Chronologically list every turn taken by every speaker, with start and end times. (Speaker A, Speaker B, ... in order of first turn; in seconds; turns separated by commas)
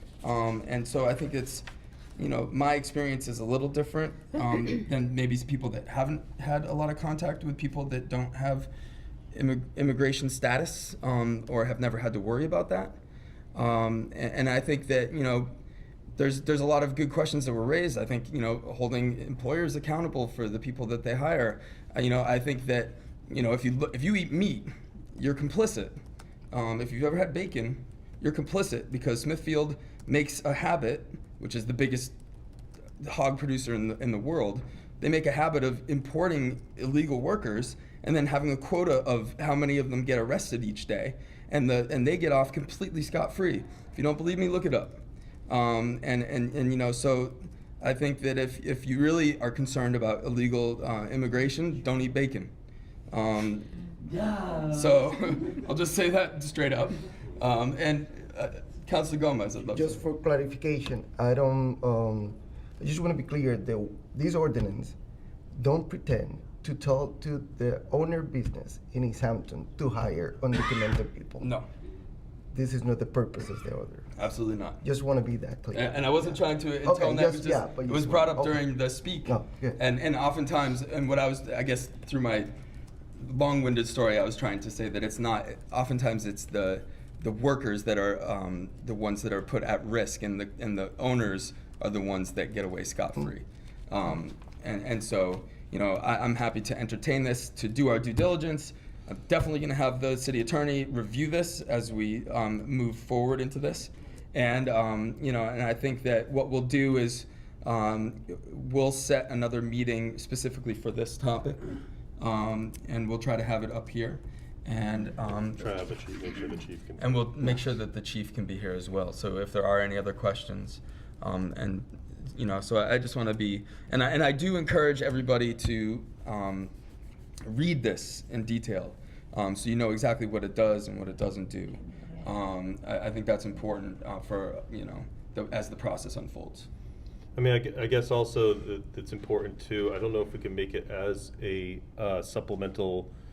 Speaker A: 0.2-1.7, Speaker A: 2.2-8.7, Speaker A: 9.3-13.0, Speaker A: 13.5-15.5, Speaker A: 16.2-26.0, Speaker A: 26.5-32.1, Speaker A: 33.0-52.5, Speaker A: 53.1-53.8, Speaker A: 54.5-60.0, Speaker B: 59.7-64.9, Speaker B: 65.5-71.5, Speaker A: 71.4-71.7, Speaker B: 72.5-74.1, Speaker A: 74.2-74.8, Speaker B: 74.8-78.6, Speaker A: 75.7-82.5, Speaker B: 79.2-79.8, Speaker A: 83.2-115.7, Speaker C: 115.6-117.2, Speaker A: 117.0-126.7, Speaker A: 127.5-136.7, Speaker C: 137.3-143.1